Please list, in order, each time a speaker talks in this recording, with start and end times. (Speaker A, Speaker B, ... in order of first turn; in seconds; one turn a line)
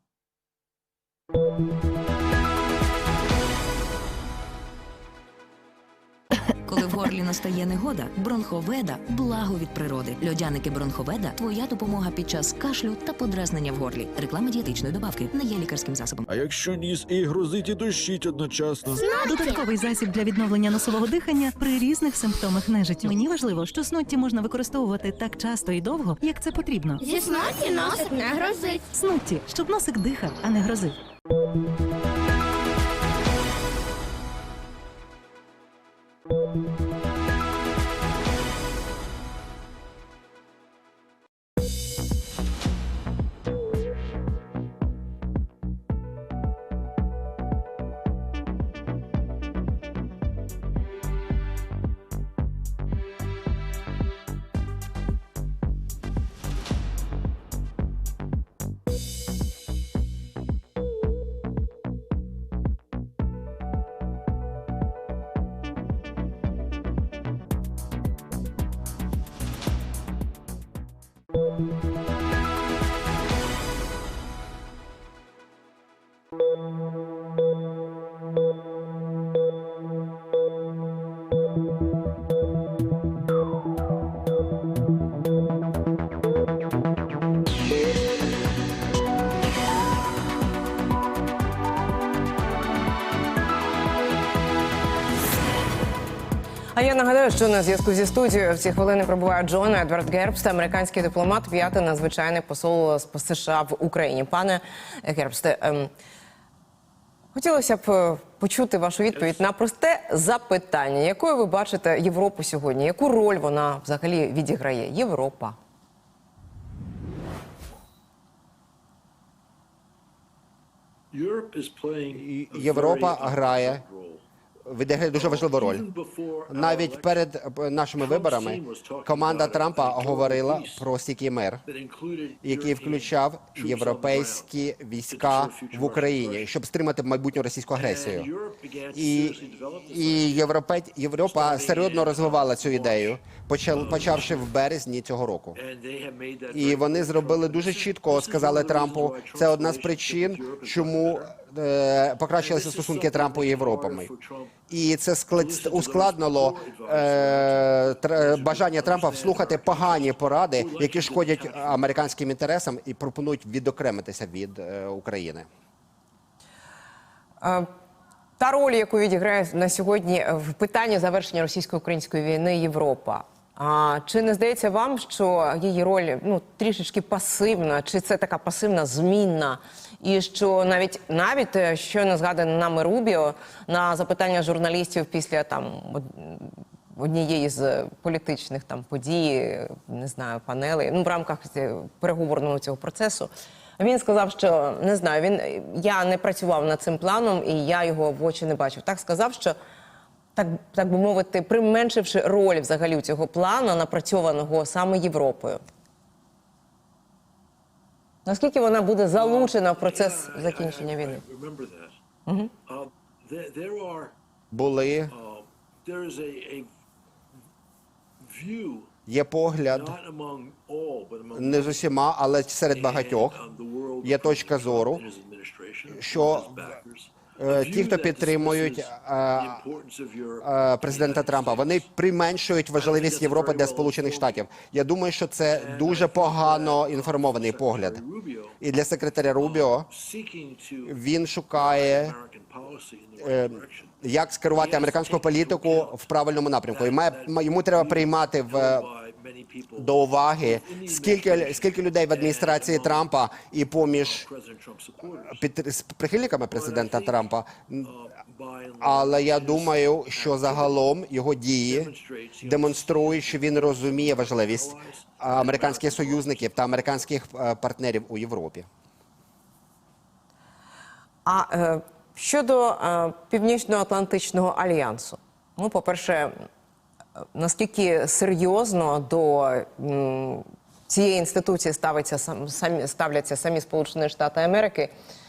Speaker A: 6.6-16.2
Speaker B: 16.3-19.0
Speaker C: 19.0-19.6
Speaker D: 19.1-27.0
Speaker C: 27.0-28.9
Speaker D: 28.9-30.9
Speaker E: 96.7-105.9
Speaker E: 107.3-115.6
Speaker F: 121.1-124.2
Speaker G: 122.1-123.8
Speaker G: 124.6-125.8
Speaker F: 125.1-127.2
Speaker G: 126.5-131.6
Speaker F: 128.0-130.8
Speaker F: 131.7-134.5
Speaker G: 132.4-138.3
Speaker F: 135.1-136.5
Speaker F: 137.8-140.5
Speaker G: 138.9-139.4
Speaker G: 139.9-145.6
Speaker F: 141.2-144.5
Speaker F: 145.5-151.3
Speaker G: 146.5-154.1
Speaker F: 152.4-154.6
Speaker G: 154.7-165.5
Speaker F: 155.3-162.1
Speaker E: 167.4-167.7
Speaker E: 168.4-199.6
Speaker E: 200.3-205.6
Speaker E: 208.2-211.2
Speaker F: 209.1-212.0
Speaker E: 212.2-212.5
Speaker F: 212.7-214.1
Speaker G: 214.5-215.1
Speaker F: 215.1-216.7
Speaker F: 218.2-218.9
Speaker G: 219.1-219.9
Speaker F: 219.7-221.9
Speaker G: 221.3-223.4
Speaker F: 222.7-231.8
Speaker G: 224.0-225.0
Speaker G: 225.9-226.5
Speaker G: 227.4-229.6
Speaker G: 230.4-238.0
Speaker F: 232.7-234.4
Speaker F: 235.5-238.6
Speaker G: 238.6-239.9
Speaker F: 239.4-241.0
Speaker G: 240.8-242.1
Speaker F: 241.5-244.0
Speaker G: 243.2-248.9
Speaker F: 244.5-246.0
Speaker F: 246.7-253.1
Speaker G: 249.8-254.3
Speaker F: 253.8-255.4
Speaker G: 255.3-257.9
Speaker F: 256.5-257.3
Speaker F: 257.8-260.9
Speaker G: 258.8-261.9
Speaker F: 261.6-266.9
Speaker G: 262.4-268.7
Speaker E: 271.2-276.3
Speaker E: 277.3-284.9